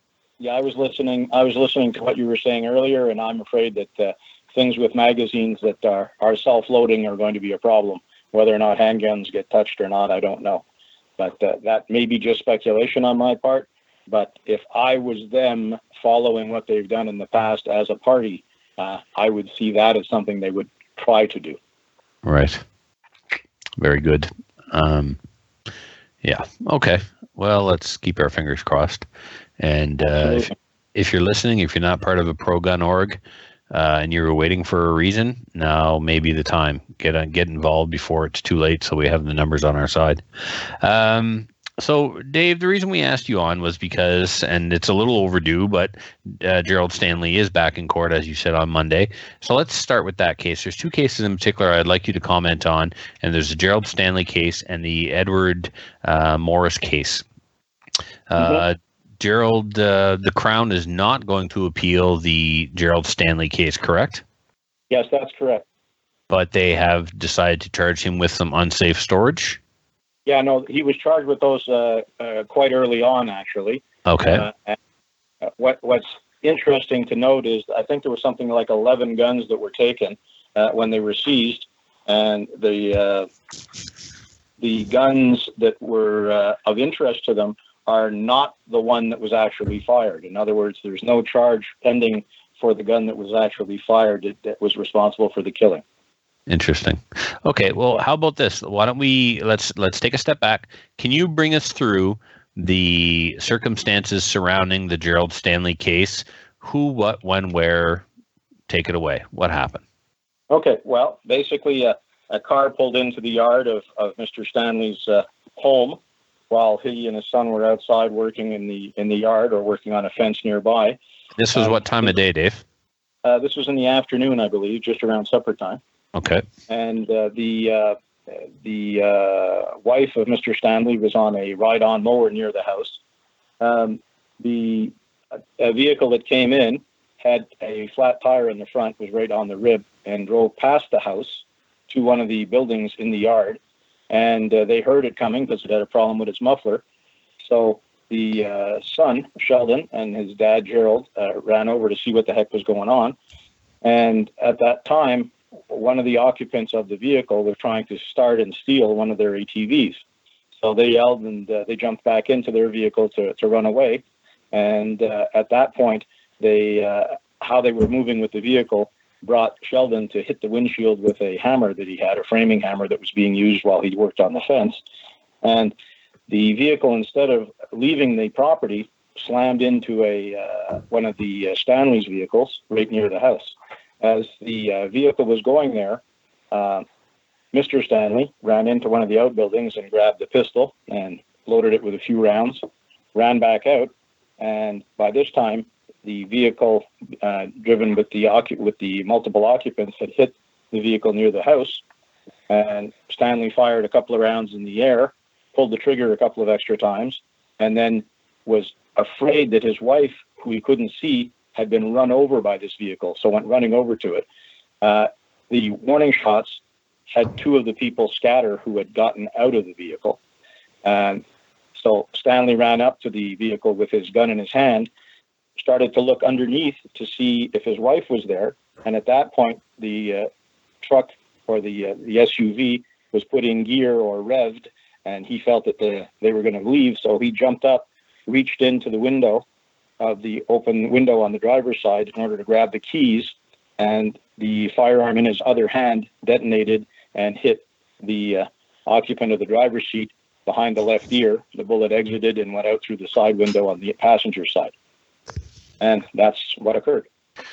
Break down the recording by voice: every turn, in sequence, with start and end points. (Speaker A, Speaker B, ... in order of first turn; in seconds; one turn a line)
Speaker A: 0.4-10.6
Speaker A: 11.2-21.6
Speaker B: 22.2-22.6
Speaker B: 23.8-25.2
Speaker B: 26.2-29.1
Speaker B: 29.6-33.2
Speaker A: 30.0-30.6
Speaker B: 33.7-40.2
Speaker B: 40.8-57.2
Speaker B: 58.3-64.2
Speaker A: 58.4-58.6
Speaker A: 64.9-65.7
Speaker B: 66.3-69.6
Speaker A: 70.3-74.8
Speaker B: 74.1-74.5
Speaker A: 75.4-83.3
Speaker A: 84.6-95.8
Speaker B: 96.5-108.0
Speaker B: 108.7-109.8
Speaker A: 110.5-116.0
Speaker A: 116.5-121.0
Speaker B: 121.4-122.6
Speaker A: 121.5-122.1
Speaker A: 123.2-125.8
Speaker B: 126.2-126.5
Speaker A: 126.7-128.0
Speaker A: 128.6-133.0
Speaker A: 133.6-134.9
Speaker A: 135.6-143.6
Speaker A: 144.1-146.8
Speaker A: 147.4-153.2
Speaker A: 153.8-160.0
Speaker A: 160.6-174.8
Speaker A: 175.4-175.8
Speaker A: 176.3-186.8
Speaker A: 187.5-201.8
Speaker A: 202.5-214.2
Speaker A: 214.8-216.6
Speaker A: 217.1-220.2
Speaker A: 220.8-221.2
Speaker A: 221.8-224.9
Speaker A: 225.6-230.3
Speaker A: 230.8-239.4
Speaker A: 240.0-254.7
Speaker A: 255.8-257.1